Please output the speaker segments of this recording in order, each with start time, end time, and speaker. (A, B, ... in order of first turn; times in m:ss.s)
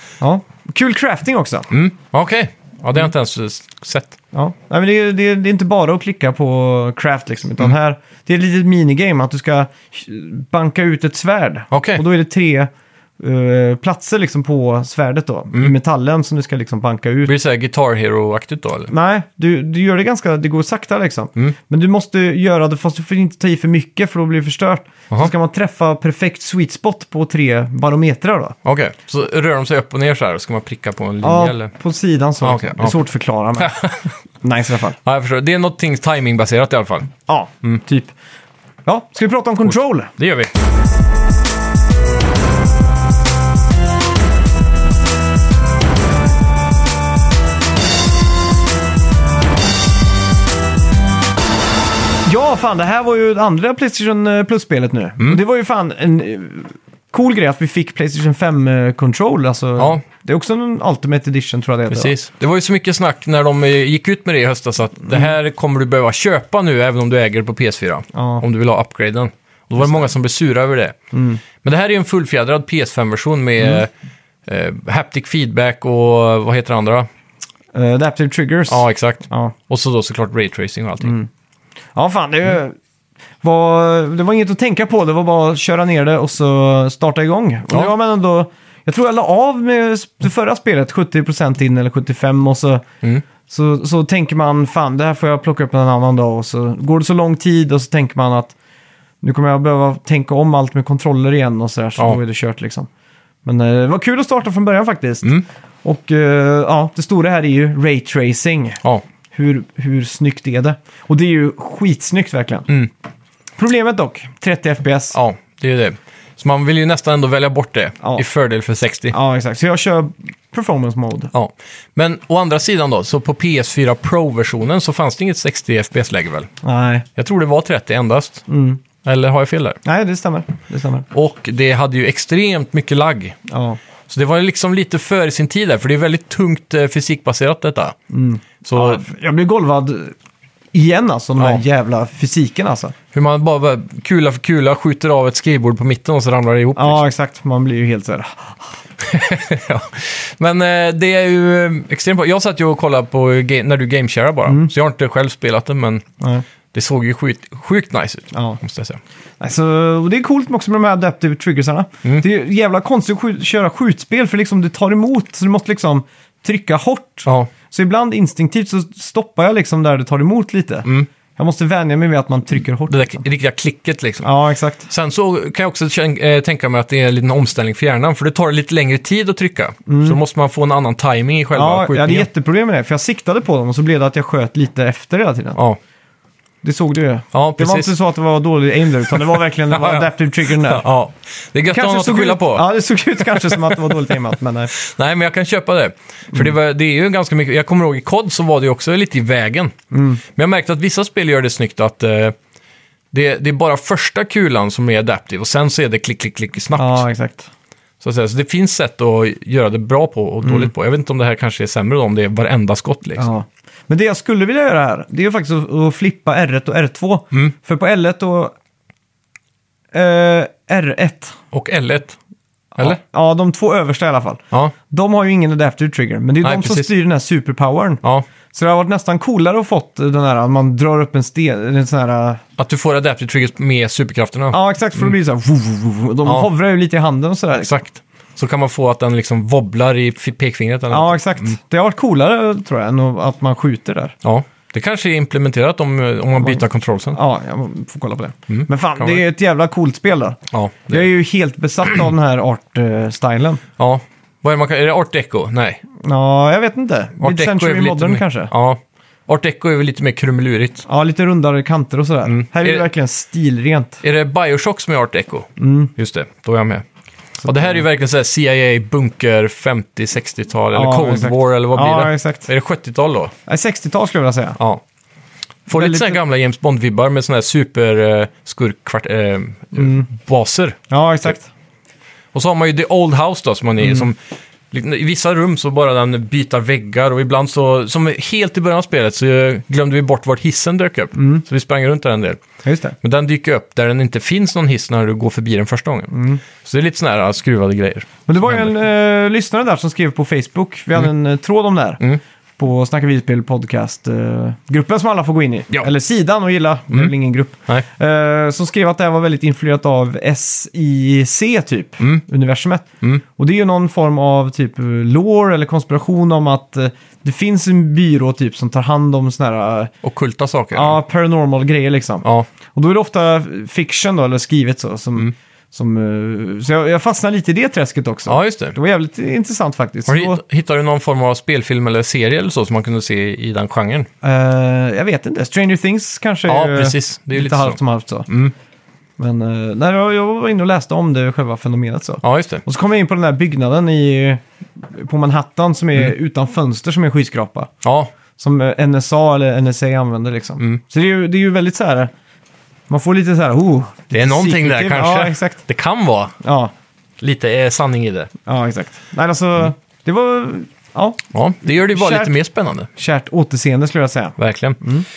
0:00.2-0:01.7 A
0:01.7-0:04.2 B
0:04.3-0:12.7 A
0:11.7-0:12.0 B
0:13.2-0:17.3 A
0:17.2-0:18.9 B
0:18.9-0:28.6 A
0:28.6-0:31.7 B
0:31.2-0:33.8 A
0:32.4-0:33.0 B
0:33.6-0:34.1 B
0:34.4-0:35.0 A
0:35.0-0:37.8 B
0:37.3-0:38.1 A
0:38.8-0:40.1 A
0:40.2-0:40.5 B
0:52.2-1:02.1 A
0:59.8-1:00.0 B
1:01.9-1:11.0 B
1:08.1-1:08.4 A
1:11.1-1:11.4 A
1:11.6-1:13.9 B
1:14.4-1:17.1 B
1:17.7-1:19.5 A
1:18.7-1:21.1 B
1:21.0-1:21.3 A
1:21.9-1:22.7 A
1:23.4-1:32.8 A
1:33.5-1:38.5 A
1:39.2-1:42.9 A
1:43.4-1:52.7 A
1:53.6-1:55.2 A
1:55.1-1:59.1 B
1:59.1-2:01.3 A
2:01.3-2:06.5 B
2:06.6-2:07.0 A
2:07.2-2:08.4 B
2:08.5-2:08.8 A
2:09.0-2:09.8 B
2:09.8-2:11.0 A
2:11.1-2:13.4 B
2:13.5-2:13.8 A
2:14.1-2:18.0 B
2:18.1-2:20.1 A
2:18.6-2:19.0 B
2:20.7-2:22.9 A
2:21.4-2:21.6 B
2:23.1-2:27.0 B
2:26.8-2:28.8 A
2:29.0-2:36.0 B
2:34.4-2:34.7 A
2:36.2-2:36.4 A
2:36.7-2:39.0 B
2:38.3-2:38.6 A
2:39.4-2:53.2 A
2:52.9-2:54.3 B
2:54.2-2:54.9 A
2:54.9-3:02.3 B
2:59.9-3:00.2 A
3:01.5-3:05.6 A
3:06.6-3:10.8 A
3:07.3-3:07.9 B
3:09.1-3:12.7 B
3:11.7-3:14.7 A
3:13.2-3:14.1 B
3:14.7-3:19.7 B
3:19.9-3:20.2 A
3:20.3-3:22.3 B
3:23.1-3:27.0 B
3:26.8-3:27.5 A
3:28.0-3:33.3 B
3:30.4-3:30.7 A
3:33.2-3:38.5 A
3:39.9-3:41.4 A
3:41.5-3:42.2 B
3:42.7-3:52.4 A
3:46.4-3:46.9 B
3:52.6-3:55.1 B
3:54.5-3:57.7 A
3:57.6-4:01.5 B
4:00.9-4:04.2 A
4:04.2-4:07.2 B
4:07.1-4:10.4 A
4:08.5-4:09.2 B
4:10.5-4:11.1 B
4:10.9-4:13.6 A
4:13.8-4:15.8 B
4:16.0-4:18.5 A
4:17.2-4:20.8 B
4:20.8-4:24.0 A
4:22.2-4:22.8 B
4:24.0-4:26.8 B
4:25.6-4:25.9 A
4:27.4-4:27.8 A
4:27.4-4:33.3 B
4:30.7-4:32.5 A
4:33.5-4:34.6 A
4:35.7-4:40.8 B
4:35.7-4:36.2 A
4:39.8-4:40.1 A
4:40.9-4:41.5 A
4:42.3-4:44.2 B
4:44.7-4:52.4 B
4:51.2-4:51.4 A
4:52.6-4:53.0 A
4:53.0-4:58.7 B
4:56.1-4:56.4 A
4:58.3-5:02.0 A
5:02.6-5:19.9 A
5:20.0-5:21.0 B
5:20.7-5:30.4 A
5:22.2-5:22.5 B
5:28.2-5:28.8 B
5:30.1-5:34.1 B
5:34.2-5:38.3 A
5:36.5-5:37.8 B
5:38.3-5:38.5 B
5:39.2-5:47.7 A
5:42.2-5:42.6 B
5:47.8-5:48.1 B
5:48.4-5:52.1 A
5:52.9-5:55.6 A
5:54.1-5:56.3 B
5:56.4-5:56.7 A
5:57.2-5:58.3 B
5:58.4-6:02.3 A
6:01.3-6:02.9 B
6:03.0-6:05.1 A
6:04.4-6:04.8 B